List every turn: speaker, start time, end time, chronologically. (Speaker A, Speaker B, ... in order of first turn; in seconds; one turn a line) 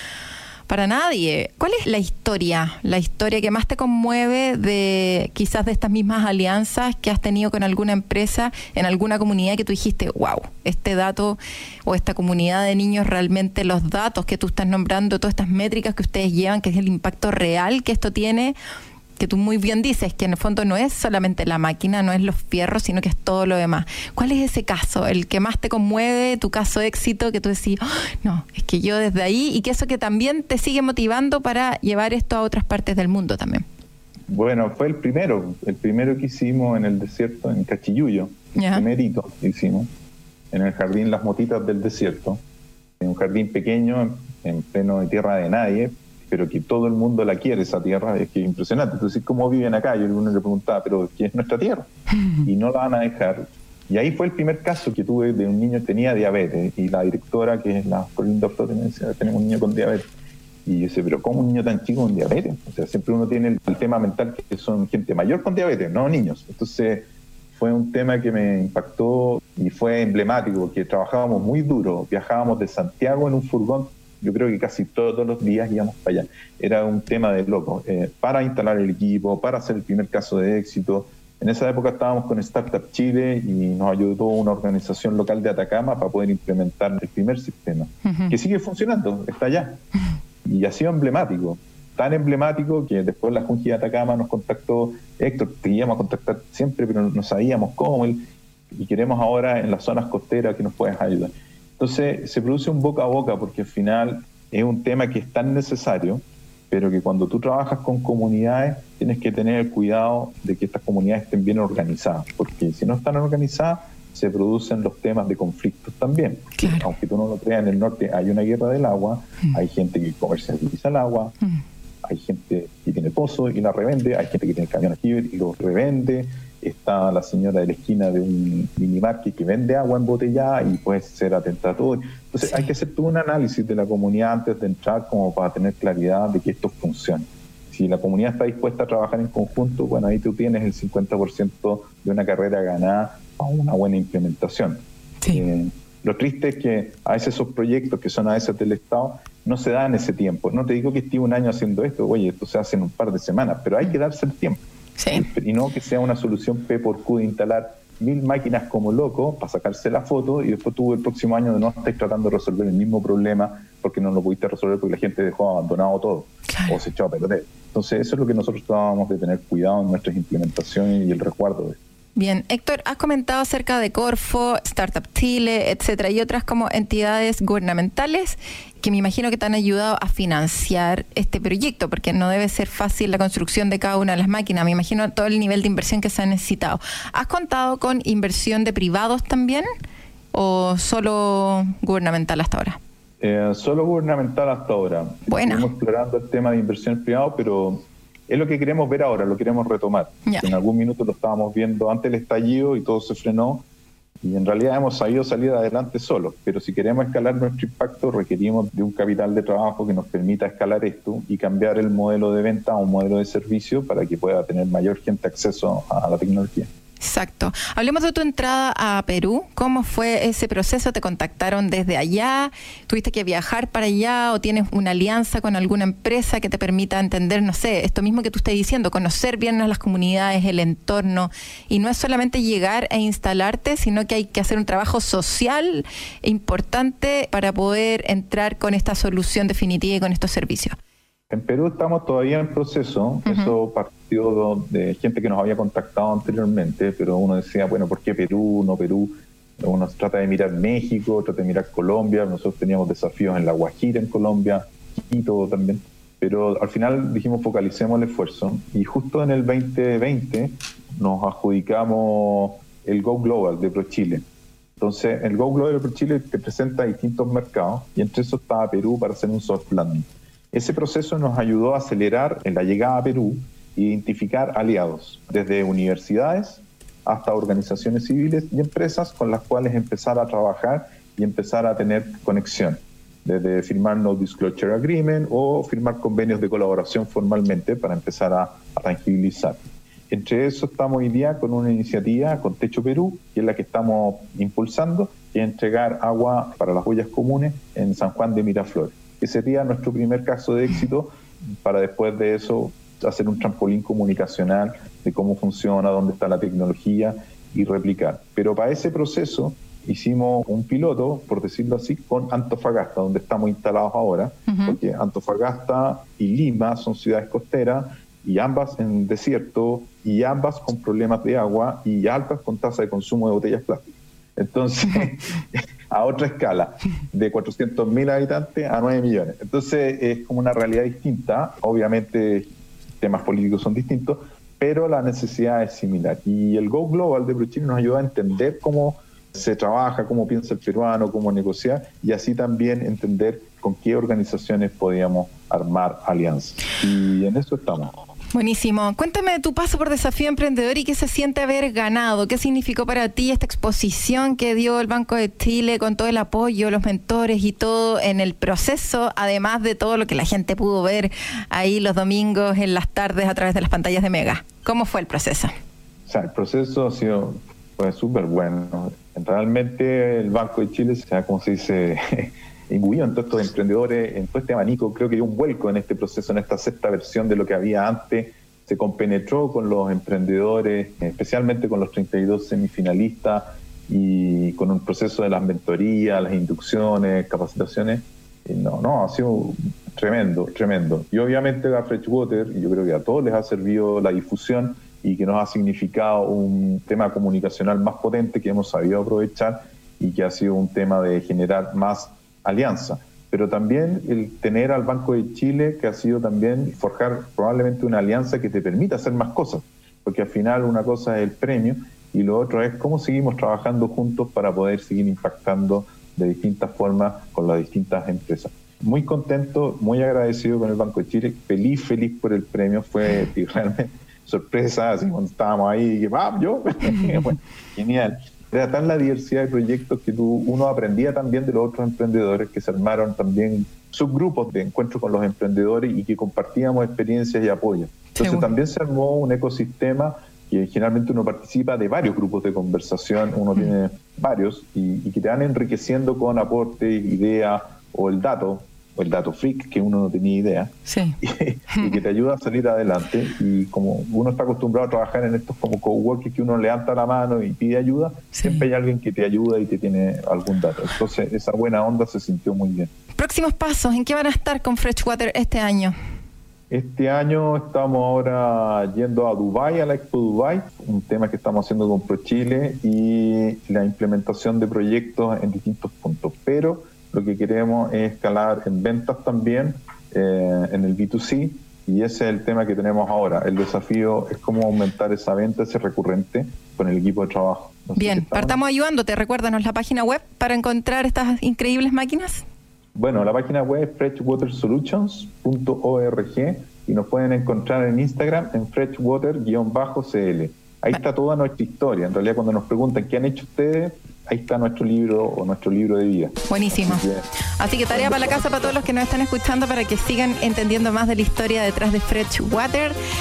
Speaker A: 0.7-18.6
Speaker A: 19.2-33.6
Speaker B: 34.3-39.9
Speaker A: 38.6-38.9
Speaker B: 40.5-42.4
Speaker B: 43.0-60.1
Speaker B: 60.7-89.8
Speaker A: 88.0-88.3
Speaker B: 90.5-121.4
Speaker A: 116.6-116.9
Speaker B: 122.0-171.8
Speaker A: 155.0-155.3
Speaker A: 172.2-189.7
Speaker A: 190.3-192.8
Speaker B: 193.2-203.7
Speaker A: 195.3-195.7
Speaker B: 204.2-216.7
Speaker A: 217.0-240.8
Speaker B: 241.3-264.2
Speaker A: 243.3-243.5
Speaker B: 264.8-347.9
Speaker A: 314.5-314.8
Speaker A: 348.3-365.5
Speaker B: 366.1-462.9
Speaker A: 438.2-438.5
Speaker A: 450.9-451.2
Speaker A: 458.4-458.6
Speaker A: 463.2-466.0
Speaker B: 466.7-488.6
Speaker A: 488.0-492.4
Speaker B: 492.9-507.3
Speaker A: 506.5-507.1
Speaker A: 507.6-513.0
Speaker B: 507.9-508.8